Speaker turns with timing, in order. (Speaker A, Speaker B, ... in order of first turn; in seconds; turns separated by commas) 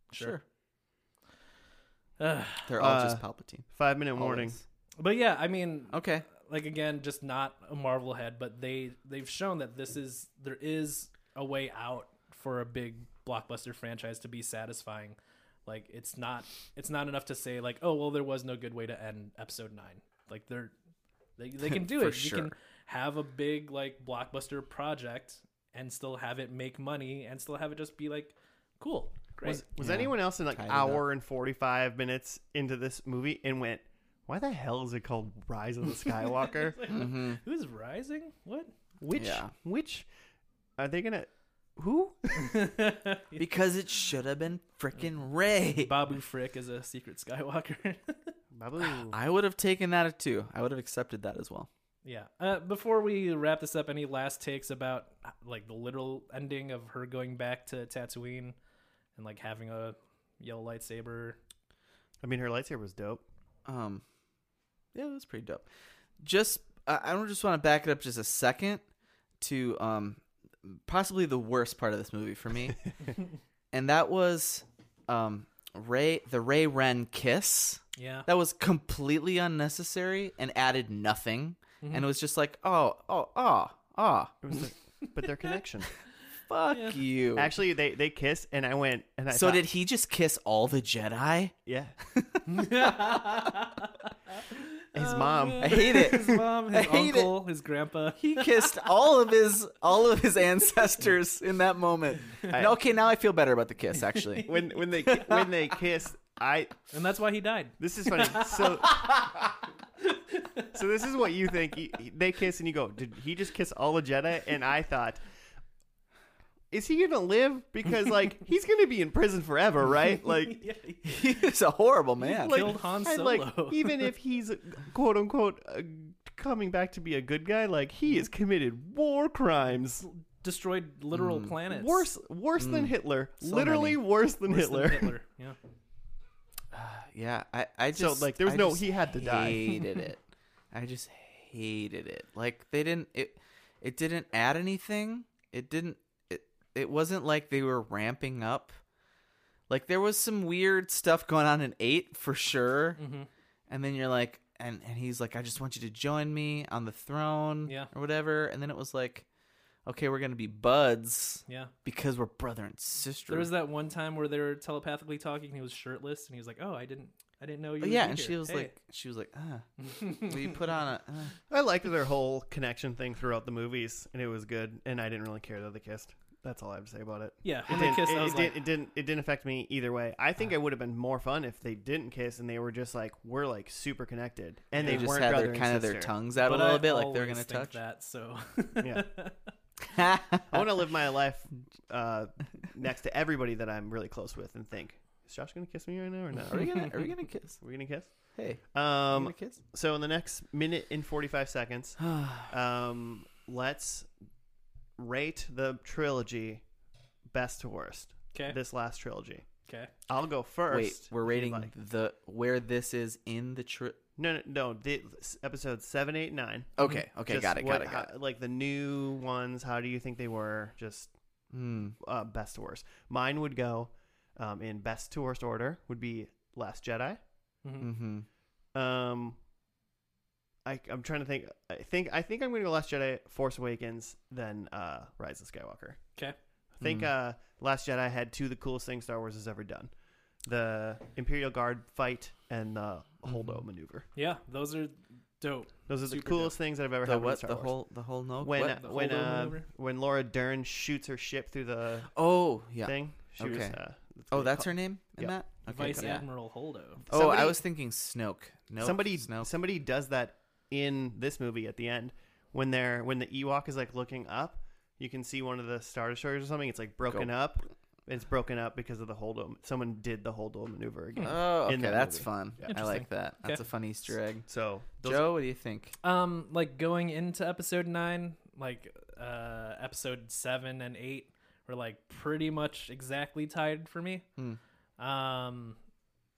Speaker A: 0.1-0.4, Speaker B: 0.1-0.4, Speaker A: 2.2-2.7, Speaker B: 2.7-4.6, Speaker C: 2.8-4.6, Speaker A: 5.0-20.7, Speaker B: 5.9-6.3, Speaker A: 21.4-29.6, Speaker B: 21.7-22.5, Speaker C: 29.4-36.9, Speaker B: 29.8-31.0, Speaker A: 36.4-38.7, Speaker B: 36.9-37.4, Speaker C: 39.0-40.1, Speaker B: 39.1-39.5, Speaker C: 40.8-42.7, Speaker A: 42.4-43.4, Speaker B: 43.4-45.9, Speaker A: 45.8-48.4, Speaker C: 48.5-49.2, Speaker B: 48.8-51.7, Speaker A: 52.0-58.6, Speaker A: 59.2-61.4, Speaker C: 62.2-63.2, Speaker B: 63.6-64.0, Speaker B: 64.9-65.7, Speaker B: 66.2-68.8, Speaker B: 69.4-72.9, Speaker B: 73.7-84.5, Speaker A: 78.0-78.3, Speaker A: 81.8-82.1, Speaker C: 84.4-85.9, Speaker B: 86.5-87.5, Speaker A: 86.7-87.0, Speaker C: 87.3-89.6, Speaker B: 89.3-91.5, Speaker C: 91.7-92.0, Speaker B: 92.1-93.4, Speaker A: 92.5-98.7, Speaker C: 94.9-96.4, Speaker B: 95.6-97.4, Speaker B: 98.2-105.5, Speaker C: 102.5-102.8, Speaker C: 104.5-106.7, Speaker A: 106.9-108.7, Speaker C: 107.8-109.1, Speaker A: 110.3-110.7, Speaker C: 110.7-115.2, Speaker C: 116.7-120.6, Speaker A: 120.5-121.4, Speaker B: 121.0-122.8, Speaker A: 122.2-124.1, Speaker C: 122.3-130.1, Speaker A: 130.0-132.1, Speaker B: 131.1-131.5, Speaker C: 131.7-135.1, Speaker B: 132.6-132.9, Speaker B: 133.4-134.0, Speaker A: 134.4-135.6, Speaker B: 136.7-140.2, Speaker C: 137.9-139.9, Speaker B: 140.7-148.7, Speaker B: 149.7-153.0, Speaker A: 153.0-153.3, Speaker B: 153.7-159.3, Speaker B: 159.9-163.5, Speaker A: 161.5-161.7, Speaker A: 163.3-168.7, Speaker B: 167.8-171.4, Speaker A: 169.8-170.6, Speaker C: 171.5-186.1, Speaker A: 177.4-178.6, Speaker B: 184.8-187.8, Speaker A: 184.8-185.1, Speaker A: 186.4-189.5, Speaker C: 188.8-189.1, Speaker B: 189.9-190.7, Speaker C: 190.5-197.1, Speaker B: 196.5-197.6, Speaker C: 197.6-204.1, Speaker B: 198.3-199.6, Speaker B: 202.0-202.5, Speaker C: 205.0-206.6, Speaker C: 207.3-209.5, Speaker A: 208.3-208.6, Speaker A: 209.7-209.9, Speaker C: 210.1-211.7, Speaker B: 210.7-214.0, Speaker C: 214.2-216.7, Speaker B: 216.8-218.1, Speaker C: 217.3-221.1, Speaker B: 221.5-221.9, Speaker C: 222.0-227.2, Speaker A: 227.6-227.9, Speaker B: 227.8-228.3, Speaker C: 228.7-229.4, Speaker C: 230.6-236.0, Speaker C: 236.8-239.9, Speaker B: 236.8-237.1, Speaker C: 240.4-244.1, Speaker B: 243.3-243.6, Speaker A: 244.1-246.5, Speaker C: 245.9-247.7, Speaker B: 247.0-248.8, Speaker C: 248.4-252.1, Speaker A: 248.6-249.7, Speaker B: 252.1-253.8, Speaker C: 252.8-256.2, Speaker B: 254.3-256.2, Speaker A: 255.7-257.0, Speaker C: 257.1-257.6, Speaker B: 257.1-259.5, Speaker C: 258.8-272.3, Speaker B: 271.2-274.5, Speaker A: 272.6-273.6, Speaker C: 274.4-275.3, Speaker B: 275.0-275.9, Speaker A: 276.0-284.2, Speaker A: 285.0-285.8